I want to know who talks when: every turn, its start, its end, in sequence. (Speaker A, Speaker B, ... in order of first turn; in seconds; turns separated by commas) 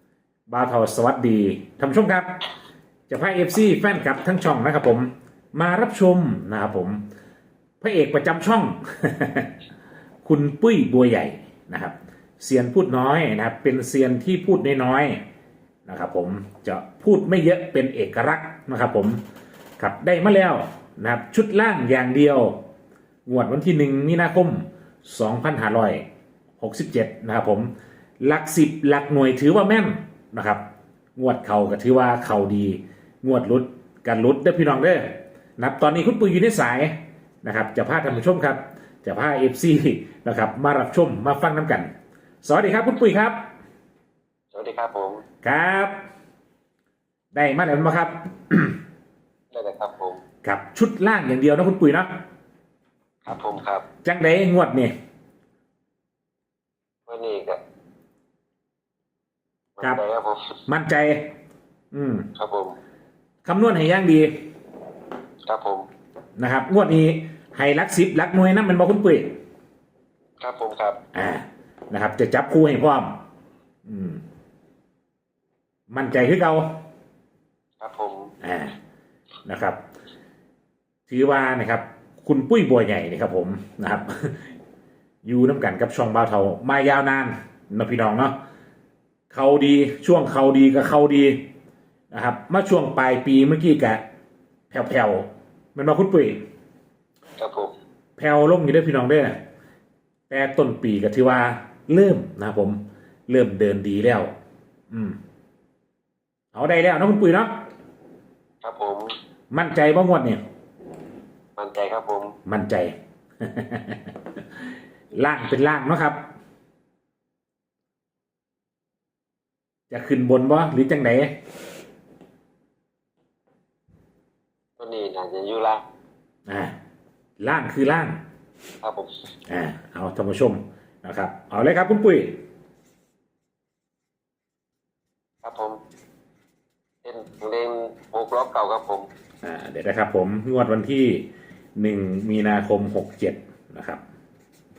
Speaker A: 0.5-2.4, Speaker A: 3.1-7.0, Speaker A: 7.8-9.5, Speaker A: 10.2-15.2, Speaker A: 15.9-19.2, Speaker A: 19.8-22.6, Speaker A: 23.2-26.0, Speaker A: 26.6-30.6, Speaker A: 31.1-41.9, Speaker A: 42.4-43.4, Speaker B: 44.5-45.2, Speaker A: 45.4-46.0, Speaker A: 47.3-48.8, Speaker B: 49.5-50.2, Speaker A: 50.4-52.2, Speaker B: 53.2-53.9, Speaker A: 54.0-54.9, Speaker B: 57.1-57.6, Speaker B: 59.8-60.6, Speaker A: 60.7-61.3, Speaker A: 61.9-62.3, Speaker B: 62.4-62.8, Speaker A: 63.4-64.5, Speaker B: 65.5-65.9, Speaker A: 66.4-69.3, Speaker B: 70.4-71.0, Speaker A: 71.1-73.2, Speaker A: 73.8-74.2, Speaker A: 75.9-76.8, Speaker B: 77.8-78.3, Speaker A: 78.4-78.8, Speaker A: 79.5-79.8, Speaker A: 81.1-84.5, Speaker A: 85.2-88.3, Speaker A: 89.3-91.4, Speaker A: 92.1-94.0, Speaker A: 94.7-96.4, Speaker B: 97.4-97.7, Speaker A: 98.2-99.4, Speaker A: 100.3-104.3, Speaker A: 104.9-105.2, Speaker A: 106.5-107.6, Speaker B: 108.6-109.1, Speaker A: 109.5-110.4, Speaker B: 111.6-112.3, Speaker A: 112.5-114.4, Speaker A: 115.1-116.2, Speaker A: 119.9-121.3, Speaker B: 124.8-125.8, Speaker A: 126.5-126.7, Speaker A: 127.4-128.2, Speaker B: 128.8-129.1, Speaker A: 129.5-132.4, Speaker B: 135.4-135.8, Speaker B: 137.0-139.1, Speaker A: 139.4-141.2, Speaker A: 141.8-144.0